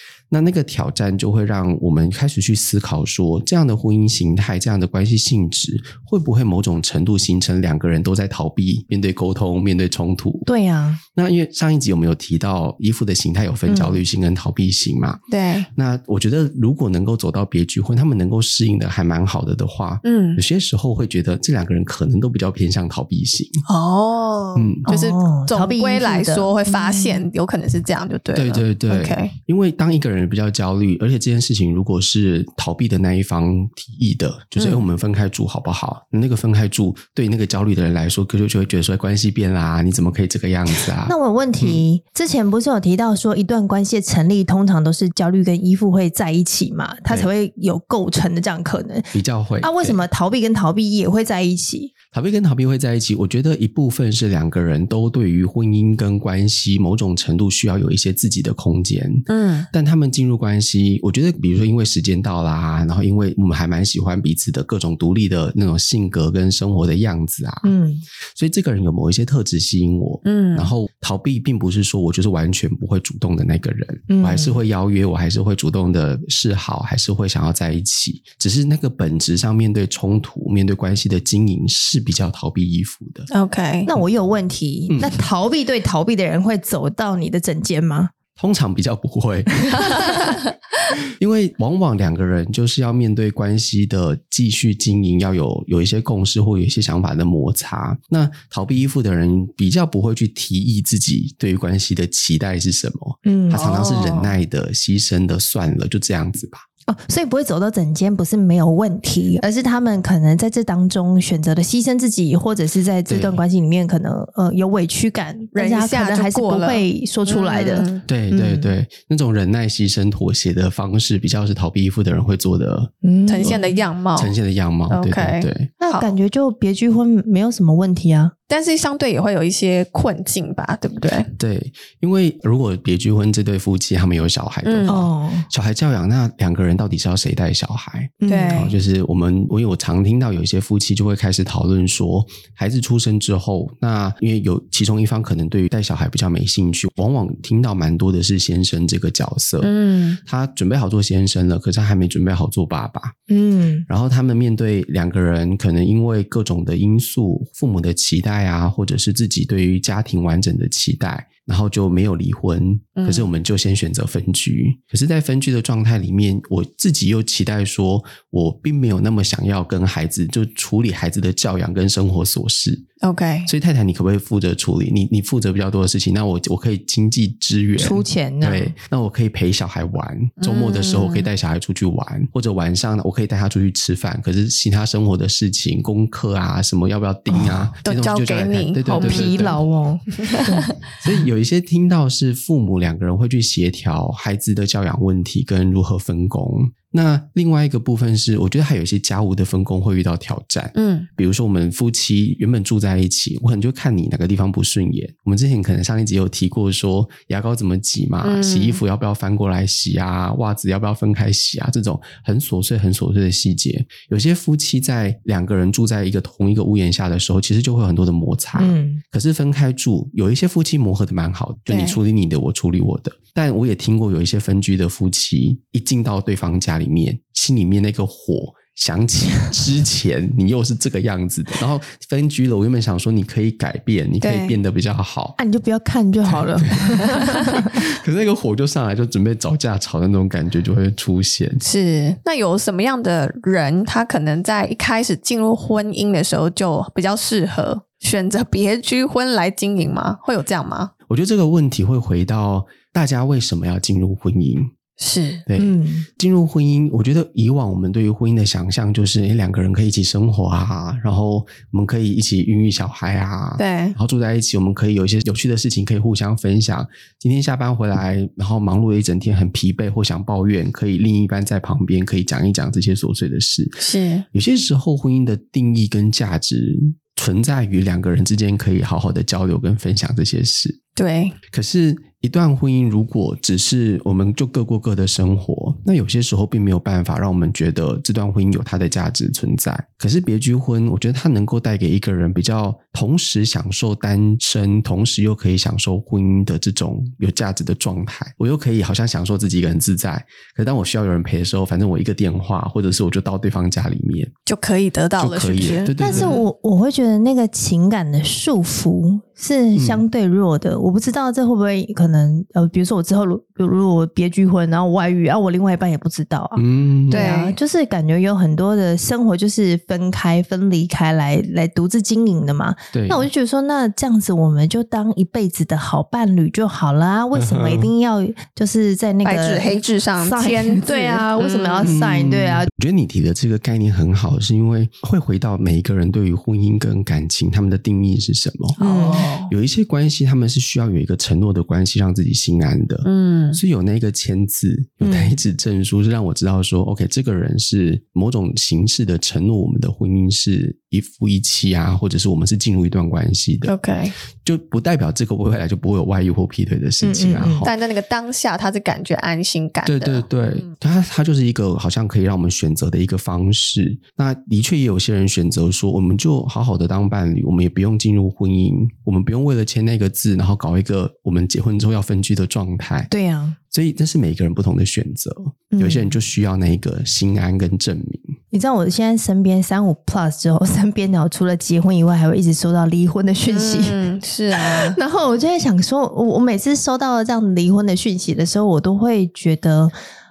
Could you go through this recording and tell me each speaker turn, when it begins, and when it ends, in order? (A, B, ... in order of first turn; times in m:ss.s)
0:00.3-0:10.5 A
0:10.4-0:11.0 B
0:11.1-0:15.2 A
0:13.7-0:14.0 C
0:15.3-0:15.7 C
0:15.7-0:23.6 A
0:20.0-0:20.4 C
0:23.7-0:29.3 C
0:24.5-0:24.8 A
0:24.9-0:27.2 B
0:28.3-0:41.8 A
0:34.6-0:34.8 C
0:41.0-0:51.9 B
0:49.1-0:50.0 A
0:52.1-1:07.7 A
0:59.3-0:59.7 C
1:07.6-1:08.0 B
1:08.4-1:23.3 A
1:10.2-1:10.7 C
1:14.1-1:14.6 B
1:23.3-1:23.9 C
1:23.8-1:28.1 B
1:24.9-1:25.2 A
1:28.4-1:30.4 A
1:29.7-1:30.1 B
1:31.0-1:46.6 A
1:43.2-1:43.6 B
1:43.5-1:44.3 C
1:46.9-1:58.7 B
1:53.1-1:53.4 A
1:55.5-1:58.0 C
1:58.0-2:03.6 A
2:03.0-2:03.7 B
2:03.3-2:04.3 C
2:04.2-2:05.7 A
2:04.9-2:06.1 C
2:05.8-2:08.3 B
2:08.5-2:11.3 C
2:11.4-2:33.2 A
2:14.6-2:15.1 C
2:14.9-2:15.5 B
2:18.2-2:18.7 B
2:18.2-2:18.7 C
2:29.6-2:30.2 C
2:33.3-2:33.8 B
2:33.9-2:52.8 A
2:43.0-2:43.3 C
2:53.0-2:53.5 C
2:53.4-3:09.6 A
2:57.8-2:58.7 B
3:00.4-3:01.3 C
3:07.3-3:07.6 B
3:07.8-3:09.5 C
3:08.9-3:10.7 B
3:10.2-3:10.7 C
3:11.0-3:55.4 A
3:20.7-3:21.1 C
3:28.2-3:28.8 C
3:38.6-3:39.0 B
3:41.7-3:42.0 C
3:54.2-3:54.6 C
3:55.4-3:57.8 B
3:56.2-4:01.6 A
4:01.6-4:10.9 C
4:11.1-4:14.7 A
4:15.0-4:15.4 C
4:15.5-4:40.8 A
4:15.6-4:16.1 B
4:23.6-4:24.0 C
4:33.8-4:34.2 C
4:41.0-4:41.4 C
4:41.5-5:04.3 A
5:04.5-5:06.4 C
5:05.2-5:06.4 A
5:06.0-5:32.7 B
5:09.7-5:10.0 A
5:16.6-5:17.2 A
5:17.1-5:17.6 C
5:22.9-5:23.3 A
5:27.3-5:27.9 A
5:29.2-5:31.9 C
5:31.8-5:38.8 A
5:38.8-5:39.5 C
5:38.8-5:39.2 B
5:39.4-5:53.8 A
5:43.0-5:43.6 C
5:45.0-5:45.3 B
5:53.7-5:54.1 C
5:54.4-5:57.8 A
5:57.0-5:57.7 B
5:57.6-6:00.3 C
5:59.8-6:13.1 A
6:13.1-6:13.6 B
6:13.7-6:18.3 A
6:15.7-6:16.1 B
6:18.5-6:29.9 B
6:23.5-6:25.0 C